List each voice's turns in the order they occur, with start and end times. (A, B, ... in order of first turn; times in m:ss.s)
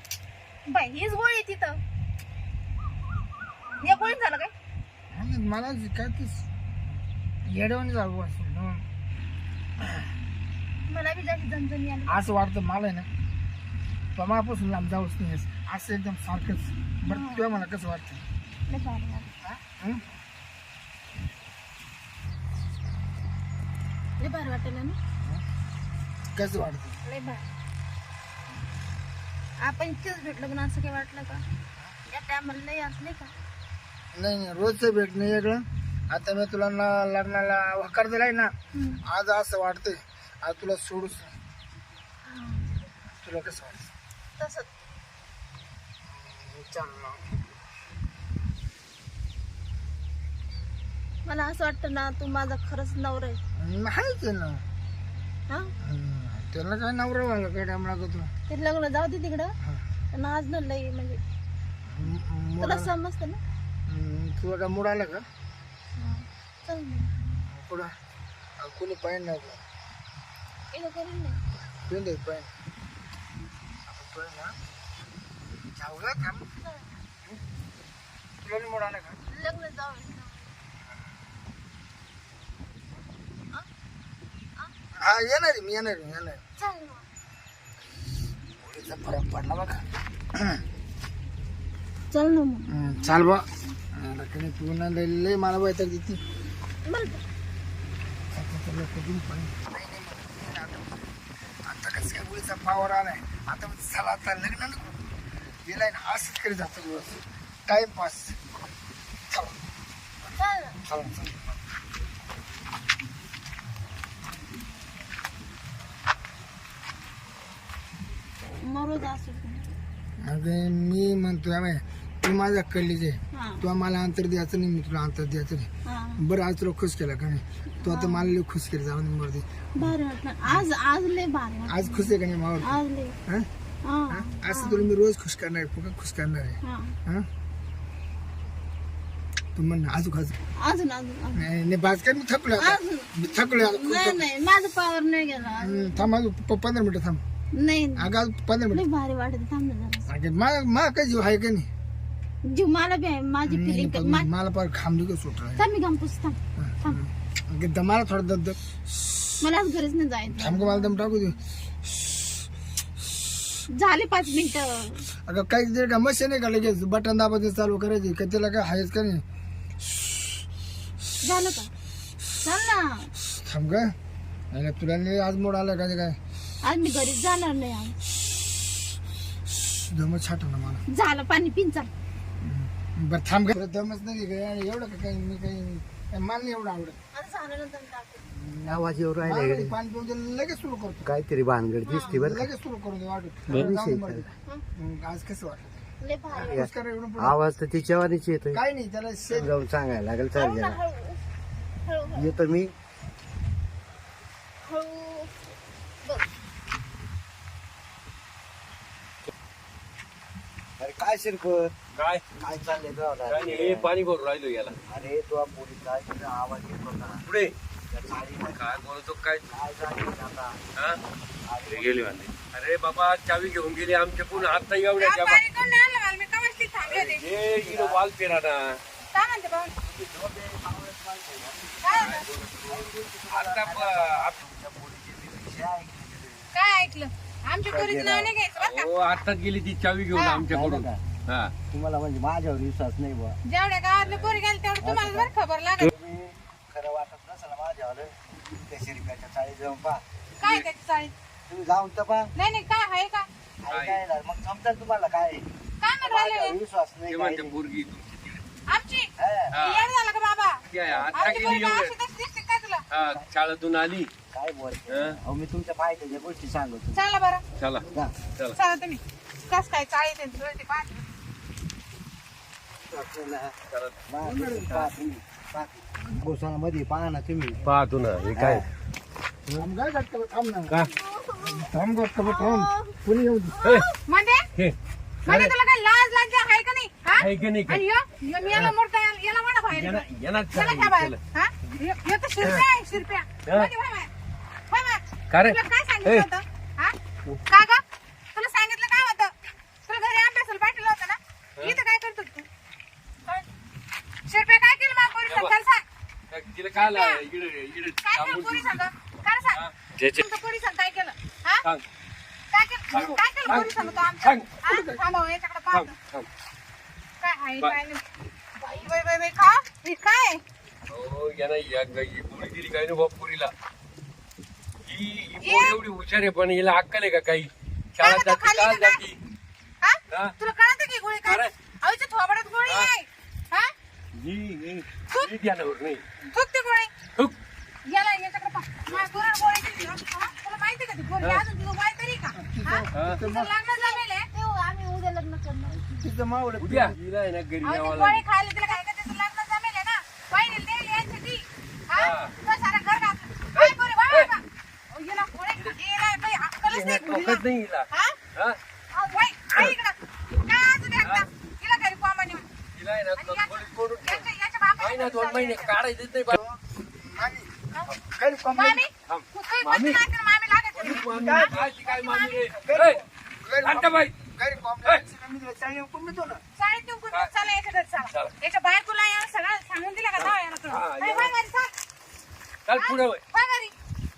0:00.7-0:01.8 A
0:03.8-0:04.5 A
0:05.1-0:06.5 B
0:07.5-0:08.8 B
0:10.9-0:12.2 A
0:12.1-0:13.1 B
0:14.2-0:18.2 B
0:17.1-0:17.5 A
0:18.7-0:19.3 A
0:19.4-0:20.0 B
0:24.2-0:25.0 A
0:26.4-0:27.0 B
0:27.0-0:27.5 A
0:29.6-0:31.4 A
0:32.1-0:33.3 A
0:34.1-0:38.5 B
0:38.7-0:39.0 A
0:39.0-0:41.3 B
0:42.2-0:42.7 A
0:43.2-0:43.9 B
0:44.4-0:44.7 A
0:46.1-0:47.4 B
0:51.2-0:53.4 A
0:53.6-0:54.6 B
0:55.8-0:58.3 B
0:58.5-0:59.6 A
1:00.1-1:01.2 A
1:01.9-1:02.9 B
1:02.6-1:03.4 A
1:03.9-1:05.2 B
1:06.0-1:07.4 A
1:07.5-1:07.9 B
1:08.6-1:09.6 B
1:10.7-1:11.4 A
1:11.7-1:12.5 B
1:13.9-1:14.6 B
1:15.8-1:16.4 B
1:16.6-1:17.0 A
1:18.4-1:19.2 B
1:19.3-1:20.5 A
1:25.0-1:26.4 B
1:26.6-1:27.0 A
1:28.6-1:29.9 B
1:32.1-1:33.0 A
1:32.7-1:36.2 B
1:36.8-1:37.2 A
1:38.3-1:40.9 B
1:41.7-1:45.0 B
1:45.7-1:48.4 B
1:49.3-1:49.6 B
1:50.4-1:50.8 A
1:50.9-1:51.6 B
1:58.6-1:59.8 A
2:00.2-2:10.7 B
2:03.3-2:03.7 A
2:05.9-2:06.2 A
2:07.8-2:08.3 A
2:09.8-2:13.2 A
2:11.7-2:13.5 B
2:13.8-2:14.9 A
2:14.1-2:17.3 B
2:16.6-2:17.0 A
2:19.6-2:20.4 B
2:20.6-2:21.5 A
2:21.4-2:24.3 B
2:22.6-2:26.1 A
2:25.6-2:27.2 B
2:27.5-2:28.1 A
2:28.0-2:28.8 B
2:28.7-2:30.0 A
2:30.1-2:31.7 B
2:32.4-2:34.3 A
2:33.5-2:35.6 B
2:35.6-2:37.0 A
2:36.6-2:38.6 B
2:39.4-2:41.0 A
2:40.3-2:41.4 B
2:43.7-2:45.1 A
2:45.3-2:49.2 B
2:51.2-2:51.7 A
2:52.4-2:53.1 A
2:53.4-2:53.9 B
2:54.5-2:56.2 B
2:56.6-2:58.0 A
2:59.6-3:00.8 B
3:00.9-3:01.9 A
3:02.4-3:07.0 B
3:07.1-3:08.3 A
3:08.3-3:11.1 B
3:08.6-3:09.8 C
3:11.0-3:12.5 C
3:11.8-3:12.3 A
3:12.1-3:17.4 B
3:13.5-3:14.3 C
3:16.0-3:16.7 A
3:16.5-3:18.6 C
3:18.5-3:19.5 B
3:19.3-3:20.8 C
3:20.3-3:21.2 A
3:21.8-3:22.4 A
3:22.1-3:22.7 C
3:24.6-3:25.3 A
3:26.0-3:26.3 A
3:30.8-3:31.7 C
3:31.9-3:32.2 D
3:32.4-3:33.9 C
3:33.3-3:34.8 D
3:34.9-3:37.2 C
3:37.1-3:37.5 D
3:37.9-3:38.8 C
3:38.4-3:39.7 D
3:39.5-3:40.6 C
3:41.5-3:42.0 C
3:41.7-3:45.5 D
3:44.3-3:44.7 C
3:45.0-3:47.2 E
3:46.8-3:48.8 D
3:47.6-3:48.0 C
3:49.1-3:49.7 E
3:49.8-3:56.5 C
3:51.8-3:52.2 E
3:52.0-3:54.4 D
3:56.5-3:58.9 E
3:57.7-3:58.3 C
3:58.6-4:01.5 D
4:00.1-4:00.5 E
4:00.5-4:01.0 C
4:01.7-4:03.4 C
4:03.5-4:05.9 E
4:04.0-4:04.4 D
4:04.8-4:10.0 C
4:10.4-4:11.1 E
4:11.5-4:12.3 C
4:12.4-4:13.3 E
4:13.6-4:15.5 C
4:13.7-4:14.0 D
4:15.8-4:16.6 E
4:16.0-4:17.6 C
4:17.1-4:18.4 D
4:18.7-4:20.6 E
4:19.2-4:19.6 C
4:19.5-4:19.9 D
4:20.7-4:22.0 D
4:20.9-4:21.6 C
4:21.1-4:22.8 E
4:22.9-4:24.1 D
4:24.3-4:27.0 C
4:24.9-4:25.2 D
4:26.9-4:27.4 E
4:27.6-4:28.6 D
4:27.9-4:28.1 C
4:28.5-4:31.0 E
4:32.9-4:33.6 C
4:33.7-4:34.0 D
4:34.1-4:37.6 C
4:34.2-4:34.9 B
4:37.6-4:38.7 D
4:38.4-4:38.7 C
4:39.5-4:40.7 B
4:40.8-4:43.0 A
4:41.4-4:43.6 B
4:43.5-4:44.0 A
4:44.1-4:44.4 E
4:44.6-4:45.5 D
4:45.3-4:54.1 E
4:47.2-4:47.8 D
4:48.4-4:48.7 D
4:49.7-4:51.2 D
4:54.7-4:56.9 E
4:55.3-4:56.3 D
4:57.5-4:57.8 E
4:58.3-4:59.3 E
4:59.9-5:02.5 E
5:04.3-5:05.8 E
5:05.3-5:05.6 D
5:06.3-5:08.8 D
5:06.8-5:07.2 E
5:08.0-5:11.6 E
5:09.5-5:10.0 D
5:12.5-5:15.9 E
5:12.9-5:14.6 D
5:14.7-5:15.0 B
5:15.7-5:16.3 D
5:17.2-5:18.0 E
5:18.6-5:20.4 E
5:20.9-5:23.5 D
5:24.9-5:29.2 D
5:25.4-5:25.8 E
5:28.0-5:29.0 E
5:29.8-5:33.7 E
5:31.2-5:31.5 D
5:34.2-5:36.0 D
5:36.3-5:36.9 E
5:37.9-5:44.3 E
5:42.4-5:43.5 B
5:43.0-5:43.2 D
5:43.7-5:45.9 A
5:46.0-5:47.0 B
5:46.6-5:48.2 D
5:47.6-5:58.2 E
5:52.0-5:52.4 D
5:53.6-5:54.3 D
5:56.7-5:58.6 D
5:58.9-5:59.3 A
5:59.1-6:02.5 E
6:02.7-6:04.3 D
6:03.2-6:05.8 E
6:04.8-6:06.4 D
6:06.4-6:07.5 B
6:08.1-6:08.8 B
6:08.5-6:12.5 E
6:09.1-6:10.0 D
6:10.8-6:13.0 D
6:11.0-6:11.6 B
6:12.6-6:16.4 B
6:13.6-6:14.2 D
6:16.6-6:21.7 E
6:18.1-6:18.3 D
6:20.2-6:21.4 D
6:22.7-6:23.2 D
6:22.7-6:23.7 E